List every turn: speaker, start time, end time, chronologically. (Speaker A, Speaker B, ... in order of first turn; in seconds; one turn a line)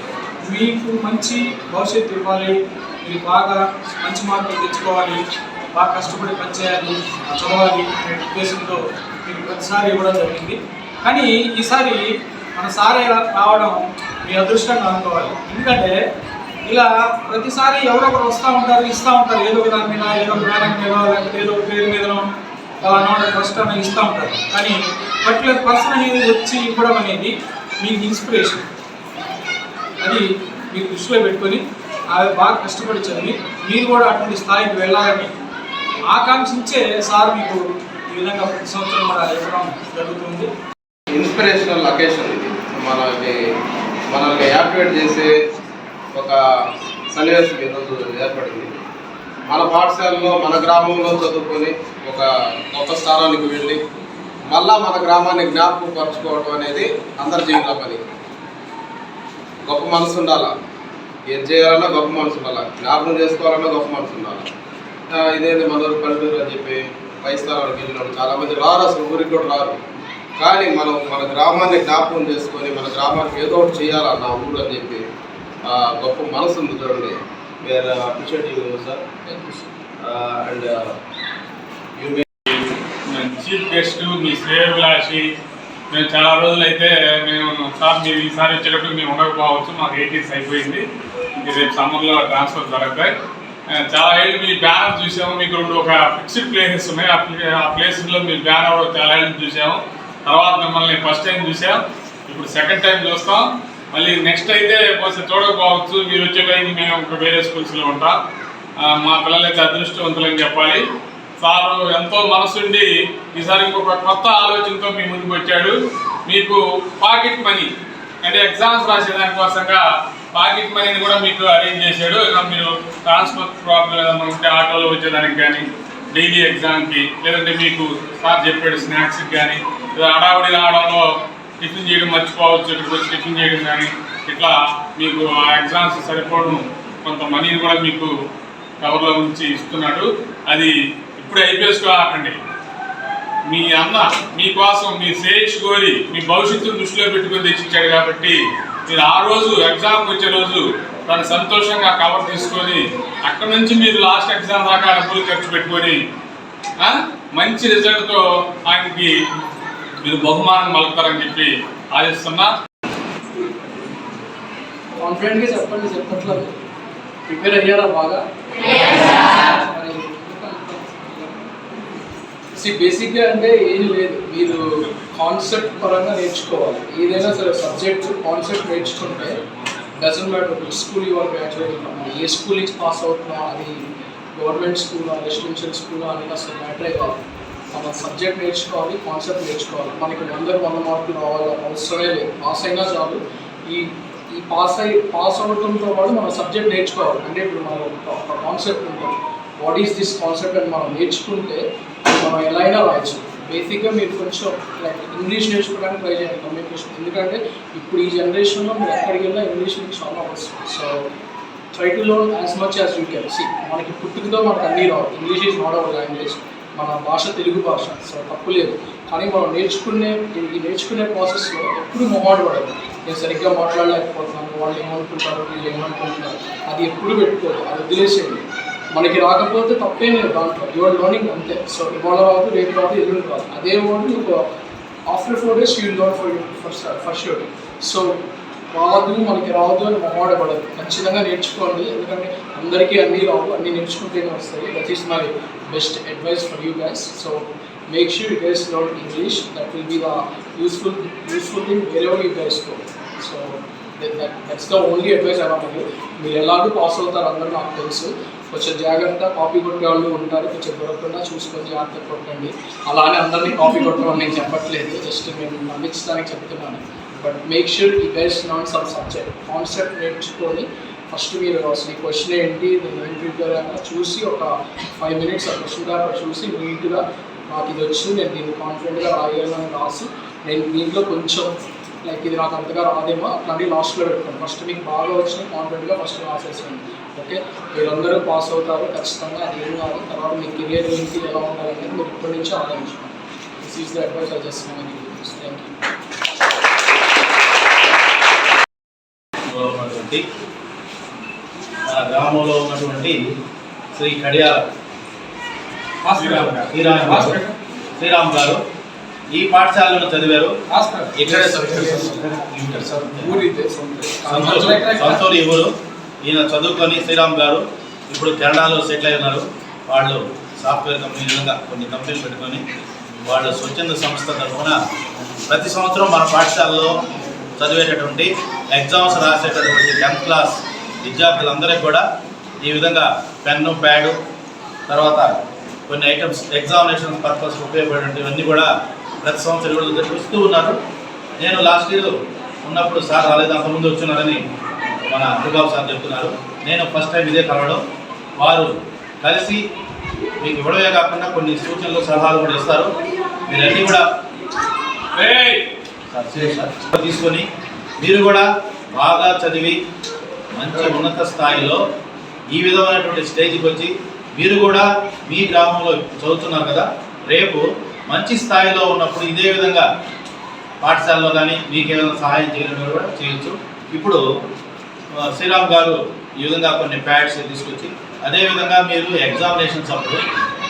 Speaker A: 0.4-5.2
Speaker A: 5.7-12.0
Speaker A: 12.5-16.0
Speaker A: 16.6-22.3
Speaker A: 22.8-28.6
Speaker A: 30.0-31.6
Speaker A: 32.1-35.3
Speaker A: 36.1-40.5
Speaker B: 41.1-43.4
Speaker B: 44.1-45.3
Speaker B: 46.1-46.4
Speaker B: 47.1-48.8
Speaker B: 49.5-53.8
Speaker B: 54.5-58.0
Speaker B: 59.6-60.5
Speaker B: 61.3-64.4
Speaker B: 65.1-69.8
Speaker B: 70.4-75.0
Speaker B: 75.7-79.0
Speaker C: 79.2-79.7
Speaker B: 80.0-80.9
Speaker B: 82.0-82.2
Speaker D: 82.5-85.2
Speaker D: 85.9-90.8
Speaker D: 91.4-93.1
Speaker D: 93.7-108.1
Speaker D: 108.8-110.8
Speaker D: 111.4-115.7
Speaker D: 116.3-117.7
Speaker D: 118.2-119.8
Speaker D: 120.3-131.0
Speaker D: 131.6-138.1
Speaker D: 138.8-142.3
Speaker D: 143.5-148.4
Speaker D: 148.9-156.0
Speaker D: 156.8-159.1
Speaker D: 160.0-162.5
Speaker C: 165.0-166.6
Speaker C: 167.3-171.5
Speaker C: 172.6-179.4
Speaker C: 179.9-187.2
Speaker C: 187.7-210.9
Speaker C: 211.7-234.4
Speaker C: 235.1-295.7
Speaker E: 299.5-300.2
Speaker E: 301.9-303.3
Speaker E: 303.9-304.6
Speaker A: 306.0-307.5
Speaker D: 306.1-306.7
Speaker E: 306.7-307.4
Speaker E: 308.0-308.6
Speaker E: 309.3-310.5
Speaker A: 310.7-312.1
Speaker E: 311.1-313.4
Speaker A: 313.2-315.2
Speaker E: 314.2-315.7
Speaker E: 316.2-322.6
Speaker E: 323.2-324.8
Speaker E: 325.5-326.9
Speaker E: 327.6-332.0
Speaker E: 332.6-334.1
Speaker E: 334.9-335.3
Speaker E: 335.9-338.7
Speaker E: 339.2-340.8
Speaker E: 341.4-344.4
Speaker E: 345.1-347.8
Speaker E: 348.4-349.6
Speaker E: 350.4-352.9
Speaker E: 353.5-354.1
Speaker D: 355.1-355.6
Speaker E: 356.1-357.4
Speaker E: 358.0-359.8
Speaker E: 360.6-361.8
Speaker E: 362.5-369.9
Speaker E: 370.8-374.2
Speaker E: 375.1-380.2